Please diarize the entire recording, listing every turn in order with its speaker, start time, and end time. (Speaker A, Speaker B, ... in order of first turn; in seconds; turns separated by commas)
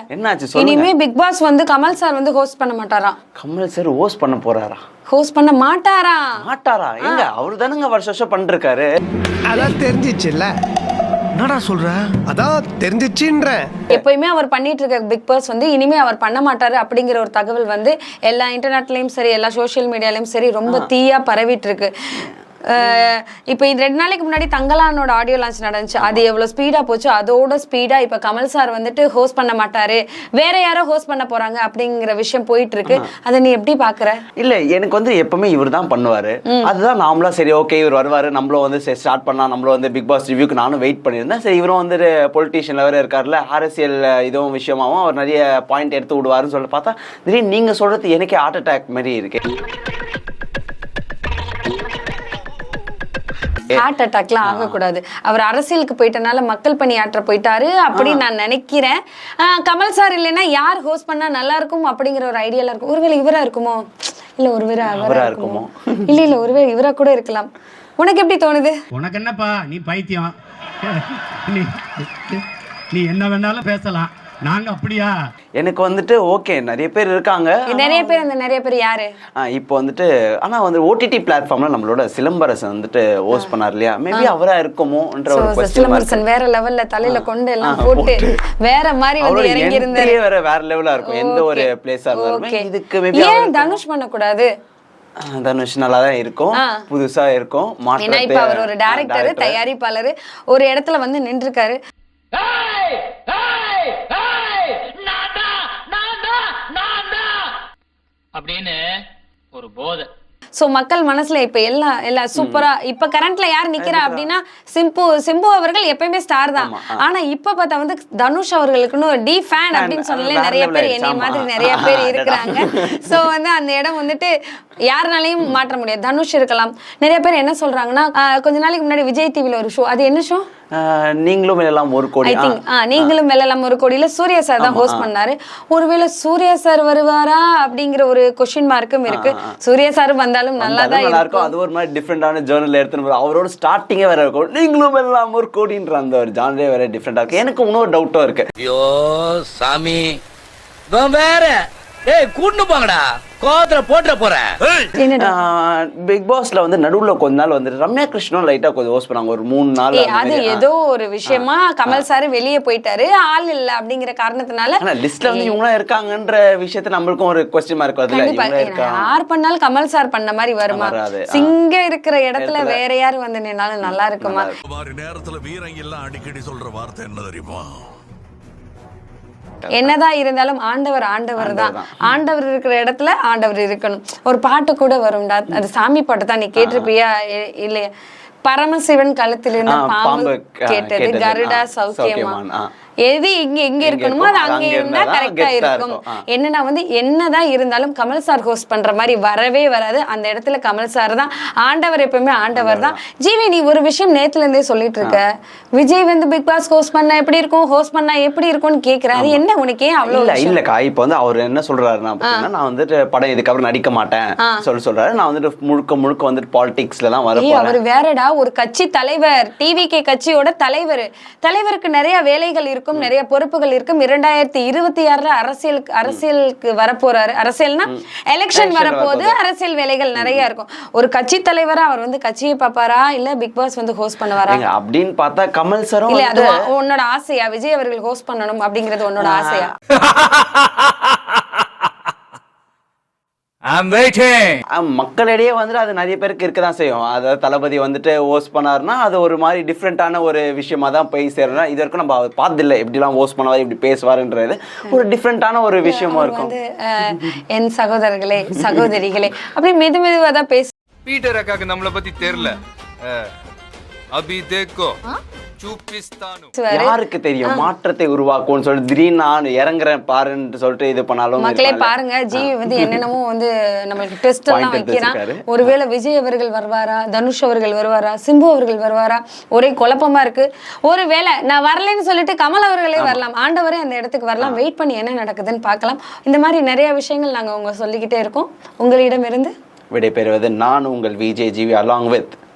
Speaker A: 0.1-0.9, Speaker B: 0.6-3.2, Speaker A: 3.4-4.8, Speaker B: 5.1-6.3, Speaker A: 6.4-8.9, Speaker C: 9.5-10.5, Speaker C: 11.3-13.6, Speaker B: 13.9-34.2, Speaker A: 34.4-49.4, Speaker B: 53.7-63.8, Speaker A: 54.4-54.8, Speaker A: 57.9-58.2, Speaker B: 64.4-68.8, Speaker A: 64.8-65.9, Speaker D: 68.9-75.2, Speaker A: 75.6-78.2, Speaker B: 77.7-79.1, Speaker A: 79.4-86.2, Speaker B: 85.3-90.2, Speaker A: 87.0-88.4, Speaker A: 89.2-93.8, Speaker B: 91.0-94.5, Speaker A: 95.2-99.6, Speaker B: 98.0-101.8, Speaker E: 102.3-107.6, Speaker E: 108.3-108.8, Speaker E: 109.5-110.1, Speaker B: 110.6-124.3, Speaker A: 112.4-112.6, Speaker A: 113.8-114.3, Speaker A: 116.5-117.0, Speaker A: 119.7-123.2, Speaker B: 124.9-130.5, Speaker A: 130.7-133.1, Speaker B: 132.2-141.5, Speaker A: 134.6-135.1, Speaker A: 139.1-139.5, Speaker A: 140.6-148.5, Speaker F: 148.6-150.2, Speaker F: 150.9-154.9, Speaker B: 155.0-155.3, Speaker A: 155.2-160.6, Speaker B: 159.9-165.6, Speaker A: 161.3-162.0, Speaker A: 164.8-169.1, Speaker B: 168.1-174.5, Speaker A: 170.7-171.5, Speaker A: 172.4-172.8, Speaker A: 173.9-174.5, Speaker G: 174.7-177.9, Speaker A: 179.6-179.9, Speaker B: 179.8-187.9, Speaker A: 181.4-182.0, Speaker A: 186.6-186.9, Speaker B: 188.4-192.4, Speaker A: 189.7-192.7, Speaker B: 193.0-210.6, Speaker A: 193.8-196.2, Speaker A: 202.5-203.0, Speaker A: 209.1-209.4, Speaker A: 210.1-217.8, Speaker B: 217.4-234.6, Speaker A: 228.5-229.3, Speaker A: 230.2-230.4, Speaker A: 234.4-236.5, Speaker B: 236.1-239.7, Speaker A: 239.2-239.7, Speaker F: 243.7-244.6, Speaker A: 244.7-256.5, Speaker B: 255.8-260.7, Speaker H: 261.1-263.2, Speaker H: 264.1-265.0, Speaker H: 265.6-266.5, Speaker B: 266.6-266.9, Speaker A: 266.7-273.0, Speaker B: 271.4-289.5, Speaker A: 274.5-275.7, Speaker A: 289.9-292.4